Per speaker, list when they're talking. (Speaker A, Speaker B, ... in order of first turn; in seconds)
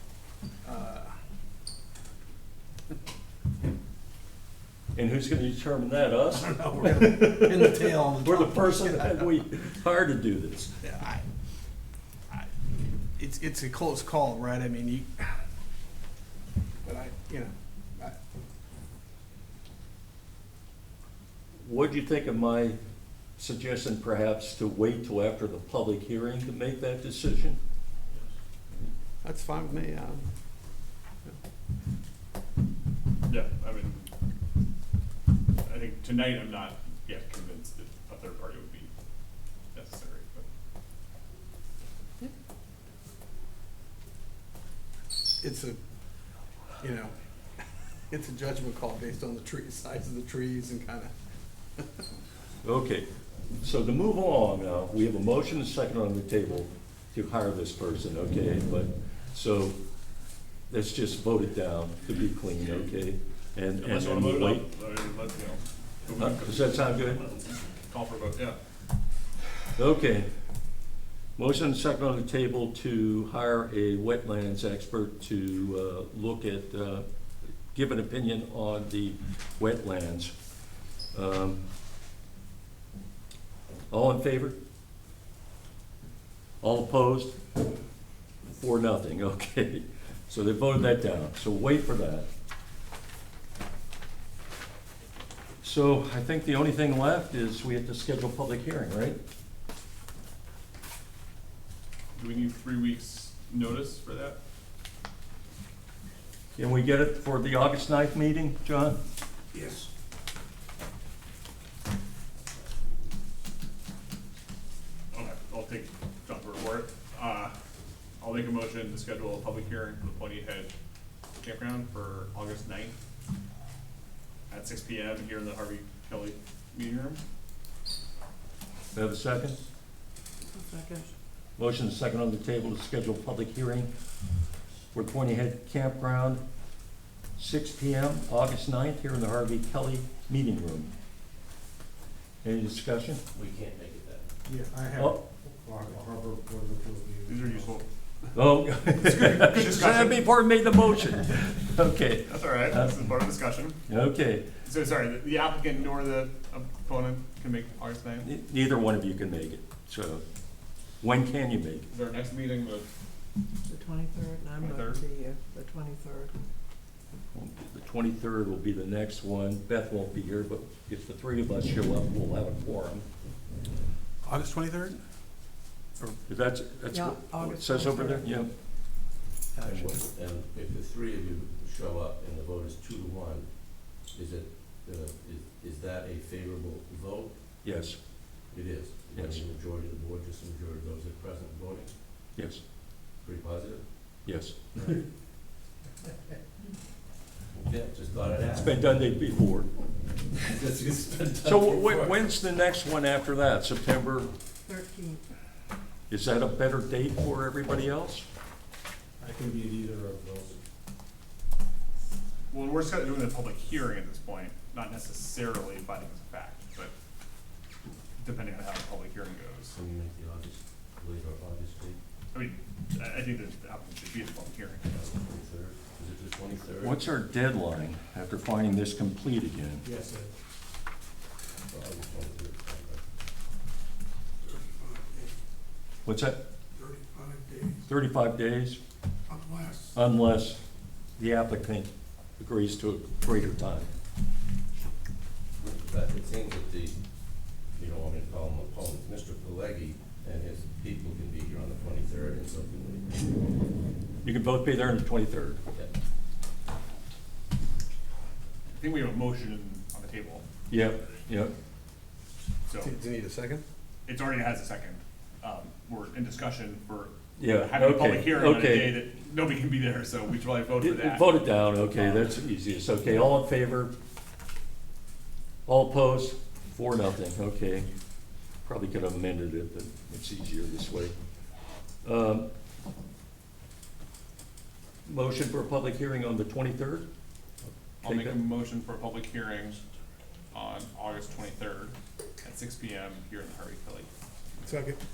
Speaker A: 0.6-1.1, 6.4-9.3, 10.8-11.2, 13.2-15.4, 16.8-18.1, 29.2-30.2, 45.4-45.8, 46.8-47.1, 48.1-51.1, 109.5-109.8, 144.5-146.6, 174.2-175.0, 179.5-180.0, 229.9-230.3, 234.4-235.3, 236.8-237.8, 239.3-239.9, 262.8-263.6, 294.6-295.0
Speaker B: 4.9-10.7, 21.6-22.8, 23.4-27.6, 52.6-59.8, 60.7-64.6, 66.2-67.2, 69.8-70.3, 71.3-77.0, 77.7-80.3, 81.1-81.6, 83.9-84.5, 86.6-87.4, 88.5-92.3, 95.6-99.2, 106.5-109.0, 128.9-129.6, 131.6-133.9, 134.9-136.4, 137.4-140.9, 142.4-143.2, 148.3-152.9, 153.9-154.4, 158.2-160.2, 161.0-161.9, 167.3-173.0, 176.0-178.5, 187.6-188.0, 189.1-189.4, 194.2-194.6, 198.6-199.7, 201.4-204.3, 206.1-208.2, 226.8-229.8, 236.0-236.4, 237.9-238.8, 239.9-240.6, 241.2-243.9, 254.2-255.6, 260.7-261.5, 267.4-269.0, 270.8-273.9, 275.6-277.9, 278.6-281.1, 282.0-282.5, 285.1-287.1, 288.0-288.4
Speaker C: 33.2-34.1, 35.6-38.9, 39.7-40.5, 63.8-66.7, 67.9-68.6, 102.1-104.4, 115.1-117.5, 118.2-120.7, 121.4-122.9, 124.5-127.2, 147.3-147.8, 149.2-150.2, 152.3-153.8, 154.6-158.3, 161.9-162.9, 164.6-165.0, 212.5-216.9, 218.2-219.7, 222.3-224.8, 258.7-260.4, 262.7-262.9, 264.1-271.4, 288.0-289.8, 290.5-294.1
Speaker D: 130.5-131.1, 163.7-166.3, 176.9-178.3, 204.7-205.2
Speaker E: 143.3-144.3, 179.6-187.3, 188.5-191.9, 193.2-193.8, 197.6-198.8, 200.3-202.2, 219.7-222.0, 224.9-227.0, 231.7-233.0, 245.6-247.0, 247.7-253.2
Speaker F: 146.1-147.2, 209.2-210.6